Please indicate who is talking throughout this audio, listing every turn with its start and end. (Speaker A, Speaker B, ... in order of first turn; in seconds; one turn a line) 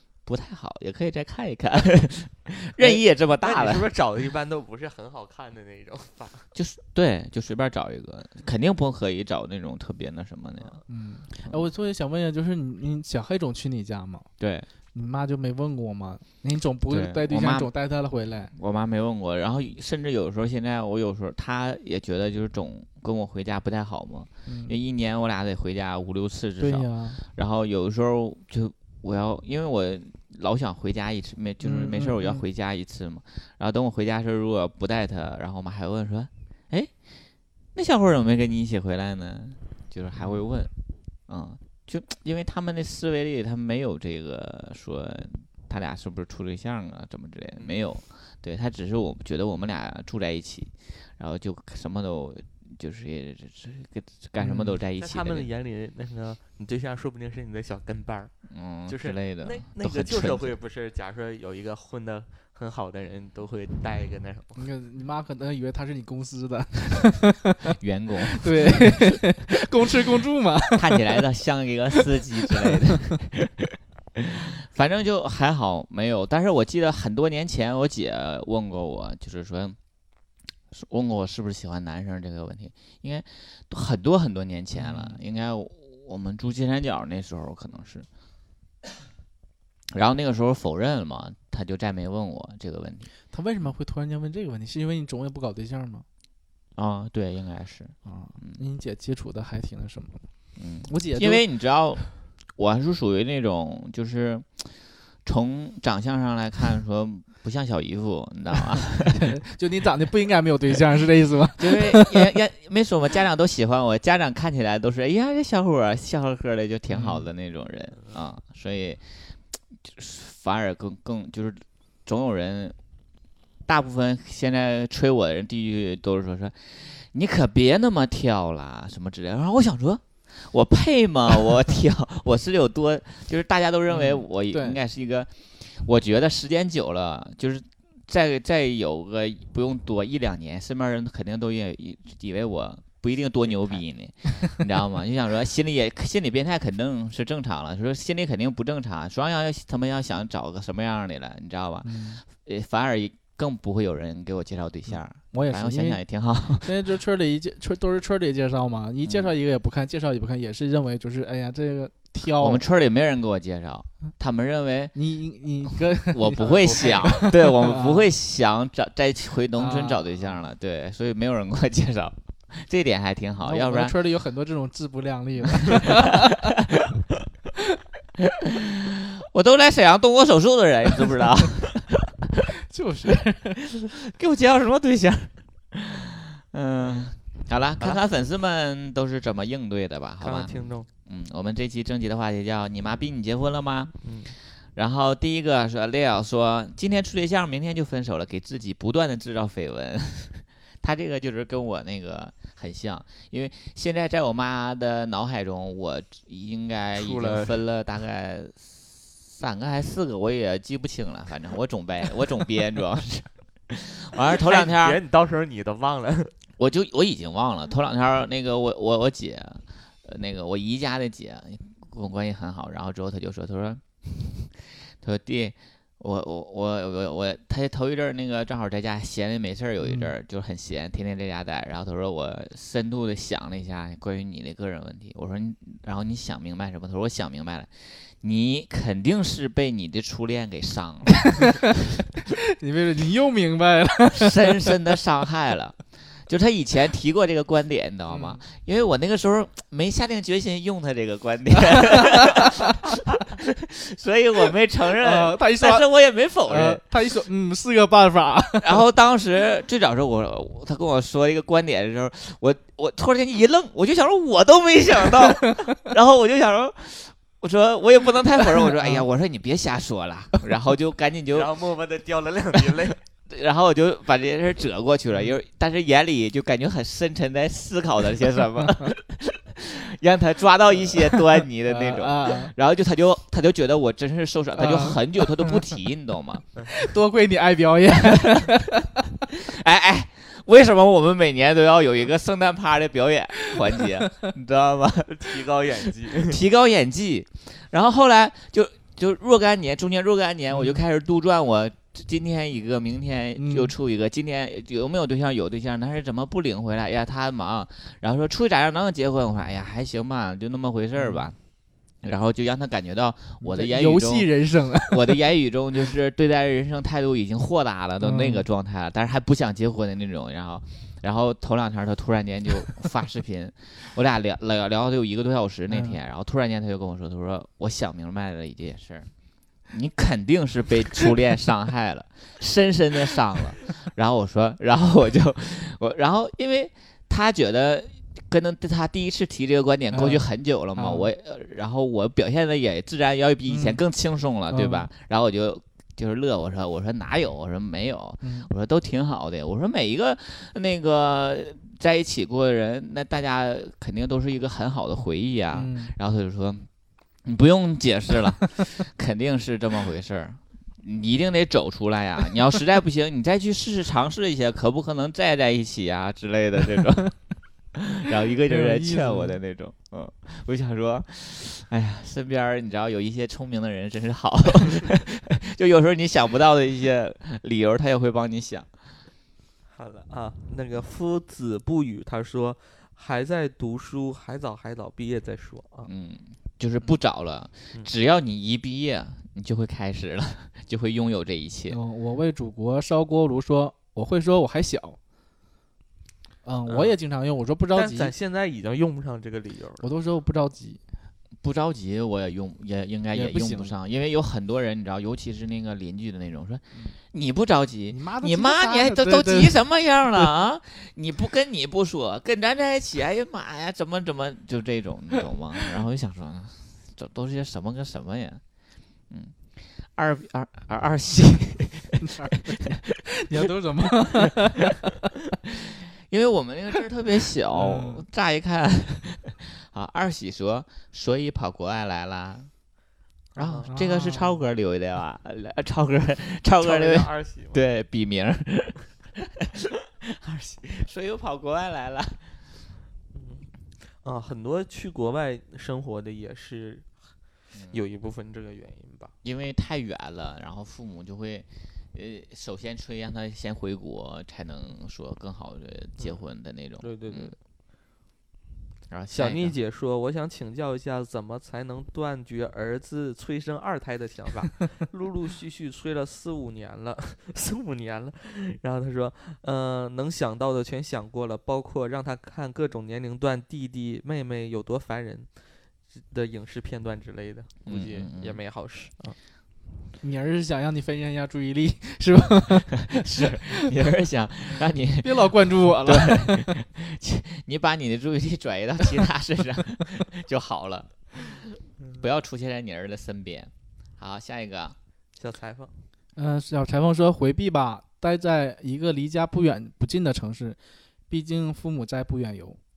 Speaker A: 0.3-3.9
Speaker B: 2.8-6.5
Speaker A: 6.5-10.8
Speaker C: 10.9-14.3
Speaker A: 11.4-11.7
Speaker A: 14.4-14.7
Speaker C: 14.9-18.5
Speaker A: 16.9-17.7
Speaker A: 18.5-36.9
Speaker C: 24.5-24.8
Speaker C: 26.6-27.2
Speaker C: 31.6-32.4
Speaker A: 37.8-40.7
Speaker A: 41.3-55.5
Speaker C: 54.4-54.8
Speaker B: 55.0-64.6
Speaker A: 58.5-60.6
Speaker C: 64.6-67.6
Speaker A: 67.7-69.3
Speaker C: 68.3-71.2
Speaker A: 70.8-79.8
Speaker A: 80.7-88.1
Speaker C: 84.7-85.2
Speaker A: 89.9-93.1
Speaker C: 93.3-96.0
Speaker A: 96.8-98.6
Speaker C: 98.0-100.2
Speaker A: 100.6-104.7
Speaker C: 100.9-101.5
Speaker A: 105.2-109.3
Speaker C: 109.1-112.2
Speaker A: 111.6-122.8
Speaker C: 116.9-117.2
Speaker A: 123.7-156.8
Speaker C: 133.9-134.8
Speaker C: 151.8-152.2
Speaker C: 154.9-156.0
Speaker C: 156.6-162.6
Speaker A: 159.1-159.3
Speaker A: 162.2-164.9
Speaker C: 164.9-168.1
Speaker A: 166.1-174.0
Speaker B: 166.5-167.0
Speaker C: 169.6-170.0
Speaker C: 173.4-176.5
Speaker A: 175.6-176.5
Speaker A: 178.5-182.4
Speaker C: 182.7-183.6
Speaker A: 183.9-193.9
Speaker B: 186.8-187.1
Speaker B: 190.2-190.9
Speaker B: 194.0-194.3
Speaker A: 194.8-215.0
Speaker B: 207.0-207.6
Speaker B: 214.4-216.3
Speaker A: 216.6-241.7
Speaker C: 229.8-230.1
Speaker C: 242.6-244.7
Speaker A: 244.2-256.8
Speaker C: 248.1-248.4
Speaker C: 251.9-252.5
Speaker C: 255.0-255.9
Speaker C: 256.5-258.7
Speaker A: 258.6-271.5
Speaker C: 268.8-269.0
Speaker B: 271.3-273.0
Speaker A: 273.3-286.5
Speaker C: 281.7-282.5
Speaker C: 284.6-285.7
Speaker C: 286.7-289.0
Speaker A: 289.4-295.4
Speaker B: 295.1-296.4
Speaker A: 296.2-311.4
Speaker C: 300.5-300.8
Speaker C: 303.4-303.7
Speaker C: 311.0-311.2
Speaker A: 312.0-329.1
Speaker C: 313.4-315.2
Speaker C: 318.0-318.4
Speaker C: 325.7-326.0
Speaker A: 329.7-356.7
Speaker C: 339.9-341.1
Speaker C: 343.5-343.8
Speaker C: 344.5-344.9
Speaker C: 348.2-348.5
Speaker C: 355.5-355.9
Speaker A: 357.3-367.2
Speaker A: 367.8-378.7
Speaker C: 368.5-369.4
Speaker B: 379.7-385.9
Speaker A: 385.9-391.8
Speaker C: 391.7-395.0
Speaker C: 396.4-398.1
Speaker B: 397.7-399.9
Speaker C: 399.8-400.8
Speaker A: 401.4-418.4
Speaker C: 403.1-403.8
Speaker C: 407.9-409.6
Speaker A: 419.1-422.1
Speaker C: 422.0-424.8
Speaker A: 426.1-432.5
Speaker C: 427.5-428.0
Speaker B: 433.3-433.7
Speaker A: 433.4-442.3
Speaker C: 433.7-434.4
Speaker B: 436.6-437.6
Speaker B: 443.1-443.5
Speaker B: 444.0-446.9
Speaker B: 447.7-449.1
Speaker A: 449.2-457.3
Speaker B: 456.8-457.4
Speaker A: 458.9-459.6
Speaker B: 459.1-475.3
Speaker B: 475.9-479.2
Speaker A: 477.7-478.4
Speaker C: 480.0-483.7
Speaker A: 482.9-491.4
Speaker C: 485.0-486.6
Speaker A: 492.0-494.8
Speaker B: 495.2-495.8
Speaker C: 496.2-500.6
Speaker C: 501.1-502.6